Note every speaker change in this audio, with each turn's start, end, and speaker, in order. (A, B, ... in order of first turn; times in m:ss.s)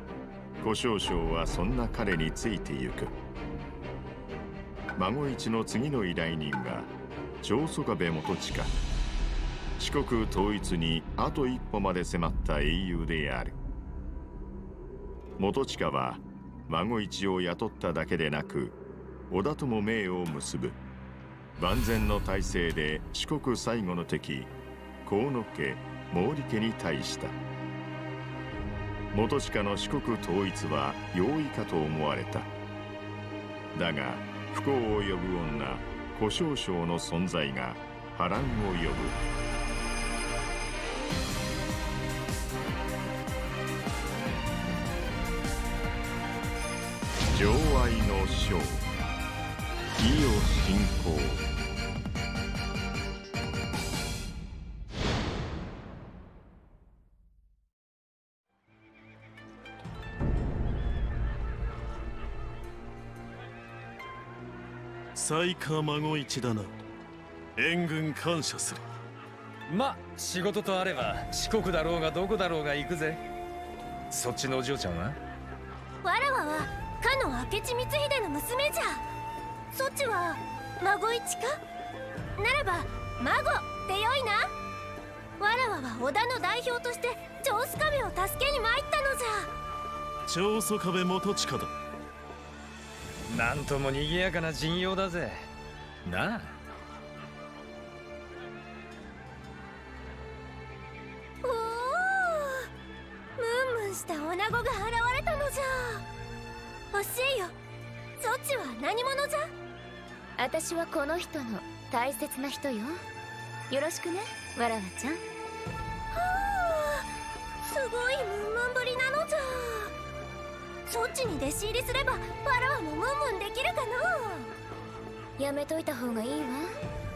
0:00.6-0:03.2 A
0:05.0-0:06.9 A
0:07.4-0:08.7 A
0:09.8-0:13.6 A
0:15.4-0:18.8 A
0:19.3-0:20.8 A
0:21.6-0:24.5 A
0:25.0-0:27.4 A
0:29.1-0:32.5 A
0:33.7-0:39.2 A
0:47.3-0:48.9 A
0:50.0-0:51.5 A
1:05.2-1:06.7 B
1:07.6-1:08.8 B
1:09.7-1:13.2 C
1:14.1-1:15.2 C
1:16.0-1:19.0 D
1:19.7-1:21.6 D
1:22.4-1:24.5 D
1:25.4-1:29.5 D
1:30.3-1:31.7 B
1:33.3-1:35.5 C
1:36.0-1:36.6 C
1:41.4-1:42.7 D
1:43.4-1:46.0 D
1:46.9-1:47.5 D
1:48.2-1:49.5 D
1:50.4-1:53.0 E
1:53.7-1:55.2 E
1:56.1-1:57.1 D
1:57.6-1:59.9 D
2:00.9-2:04.5 D
2:05.4-2:06.7 E